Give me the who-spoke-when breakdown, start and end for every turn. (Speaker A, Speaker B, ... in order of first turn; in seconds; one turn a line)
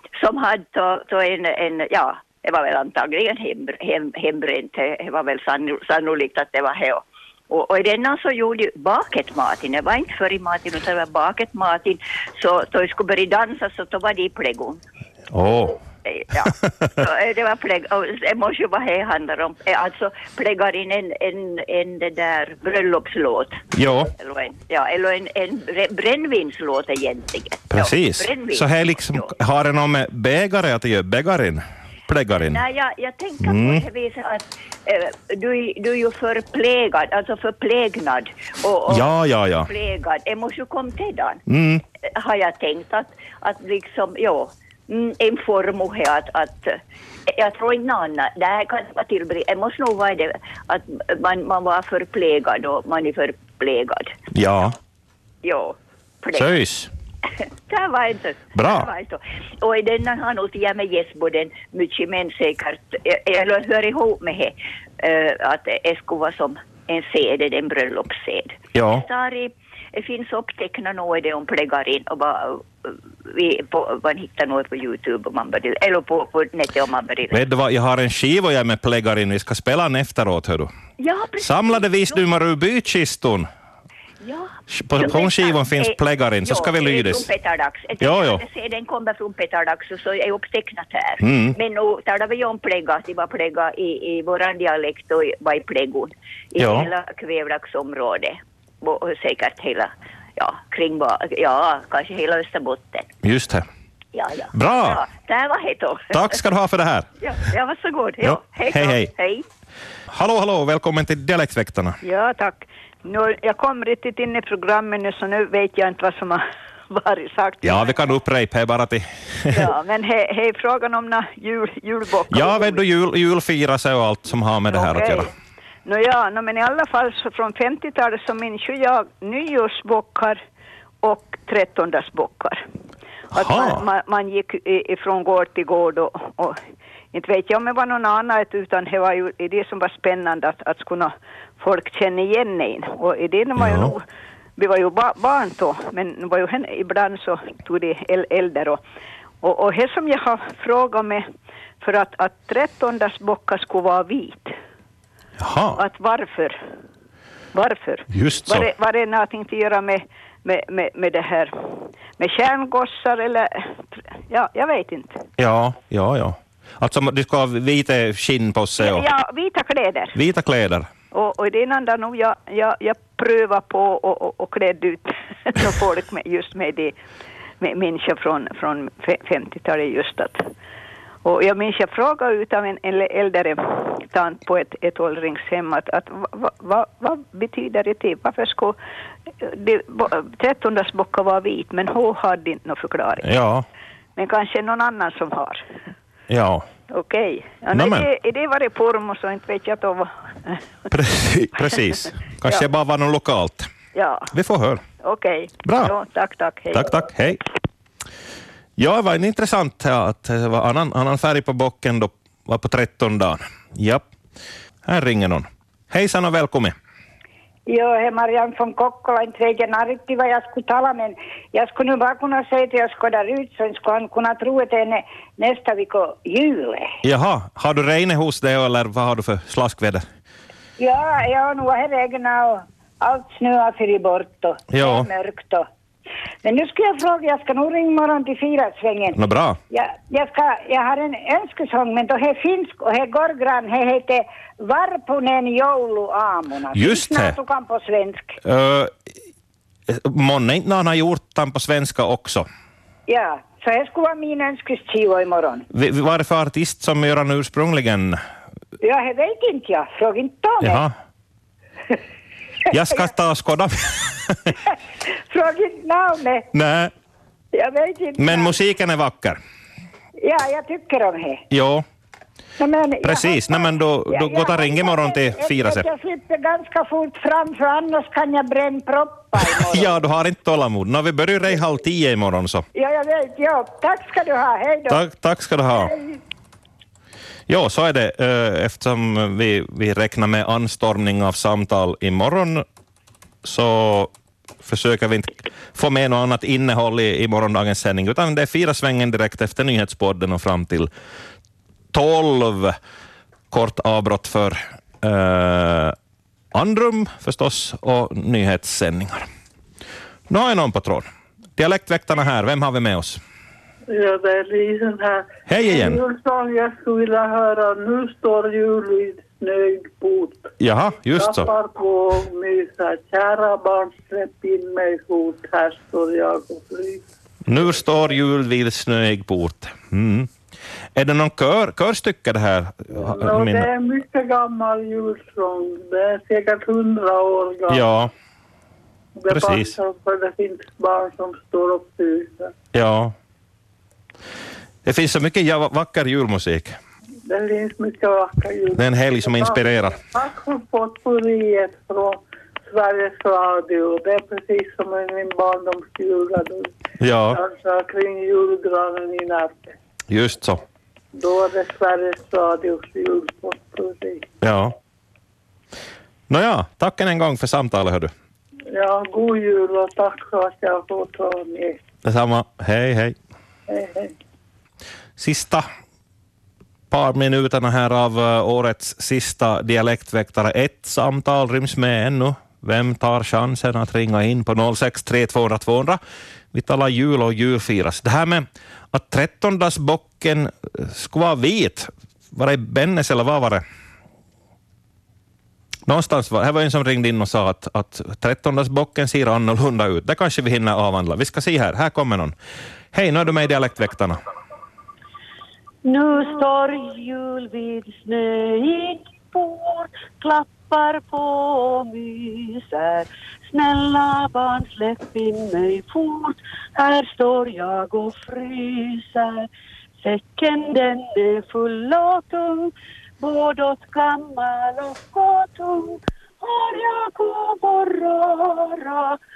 Speaker A: 0.2-14.8
Speaker B: 15.3-15.8
Speaker A: 16.1-23.6
Speaker B: 23.7-24.1
Speaker A: 24.1-29.3
Speaker B: 27.7-32.6
Speaker A: 32.3-39.1
Speaker B: 33.4-33.8
Speaker B: 38.9-39.7
Speaker A: 39.6-41.4
Speaker B: 41.5-41.8
Speaker A: 42.1-54.2
Speaker B: 54.3-54.7
Speaker A: 55.4-56.6
Speaker B: 56.3-56.9
Speaker A: 57.4-77.3
Speaker B: 58.5-58.9
Speaker B: 68.7-69.0
Speaker B: 77.3-80.7
Speaker A: 81.0-82.2
Speaker B: 81.4-83.5
Speaker A: 84.2-103.1
Speaker B: 84.7-87.3
Speaker B: 88.0-88.4
Speaker B: 91.2-91.6
Speaker B: 96.6-96.9
Speaker B: 103.2-103.6
Speaker A: 104.1-106.3
Speaker B: 104.5-105.0
Speaker B: 106.1-107.0
Speaker A: 107.2-109.4
Speaker B: 108.2-109.1
Speaker B: 110.1-112.0
Speaker C: 112.0-118.1
Speaker B: 117.6-119.7
Speaker C: 119.5-122.8
Speaker B: 122.3-125.3
Speaker C: 124.7-125.3
Speaker C: 125.8-130.4
Speaker C: 131.0-132.6
Speaker B: 133.3-133.8
Speaker C: 133.3-136.6
Speaker C: 137.1-144.0
Speaker B: 143.6-143.9
Speaker C: 144.6-148.8
Speaker C: 149.4-151.3
Speaker C: 151.8-154.6
Speaker B: 155.4-155.8
Speaker C: 155.7-156.6
Speaker C: 157.5-165.2
Speaker B: 158.1-158.7
Speaker B: 165.4-169.1
Speaker C: 168.8-170.2
Speaker B: 170.1-170.9
Speaker C: 171.1-176.9
Speaker C: 177.6-180.5
Speaker C: 181.2-188.8
Speaker C: 189.4-193.3
Speaker B: 193.2-193.6
Speaker C: 194.2-195.6
Speaker B: 196.3-196.6
Speaker C: 196.9-200.6
Speaker B: 197.7-198.1
Speaker B: 200.9-203.7
Speaker C: 203.9-204.3
Speaker B: 204.3-204.8
Speaker C: 205.0-207.0
Speaker B: 205.6-205.9
Speaker B: 206.7-207.4
Speaker B: 208.8-214.0
Speaker B: 214.8-216.7
Speaker D: 217.7-226.9
Speaker B: 227.0-230.0
Speaker D: 230.8-235.7
Speaker B: 234.7-235.1
Speaker D: 236.4-239.2
Speaker B: 239.1-239.6
Speaker D: 239.7-248.4
Speaker B: 246.7-247.3
Speaker B: 248.4-248.9
Speaker B: 249.9-252.5
Speaker D: 253.1-255.7
Speaker B: 255.7-258.2
Speaker D: 258.8-260.8
Speaker B: 260.6-260.9
Speaker B: 262.7-264.6
Speaker D: 265.3-266.5
Speaker B: 266.5-266.9
Speaker D: 267.5-268.5
Speaker B: 268.2-269.4
Speaker D: 270.2-271.4
Speaker B: 271.5-271.8
Speaker D: 272.6-280.0
Speaker B: 273.0-275.9
Speaker B: 279.4-282.6
Speaker D: 282.7-285.0
Speaker B: 284.9-285.9
Speaker D: 285.8-286.1
Speaker B: 287.5-292.6
Speaker B: 293.4-294.1
Speaker B: 294.6-300.9
Speaker B: 301.9-302.8
Speaker B: 303.5-305.9
Speaker B: 306.5-309.3
Speaker B: 310.3-313.2
Speaker E: 313.9-320.5
Speaker B: 315.5-316.0
Speaker B: 320.6-321.5
Speaker E: 321.1-327.0
Speaker B: 327.4-330.3
Speaker B: 330.9-333.7
Speaker E: 333.0-337.9
Speaker B: 337.7-338.1
Speaker E: 339.1-342.5
Speaker B: 339.3-339.7
Speaker B: 342.7-343.1
Speaker B: 344.8-346.8
Speaker E: 347.2-356.7
Speaker B: 348.7-350.0
Speaker B: 357.0-357.4
Speaker E: 357.3-359.7
Speaker B: 360.1-360.6
Speaker E: 361.1-364.2
Speaker B: 364.4-364.7
Speaker B: 366.3-368.1
Speaker E: 368.7-371.8
Speaker B: 372.0-373.1
Speaker E: 373.7-374.1
Speaker B: 375.2-375.7
Speaker B: 376.9-386.0
Speaker B: 386.5-393.6
Speaker B: 395.9-402.3
Speaker B: 402.9-404.2
Speaker F: 405.8-419.5
Speaker F: 420.0-429.2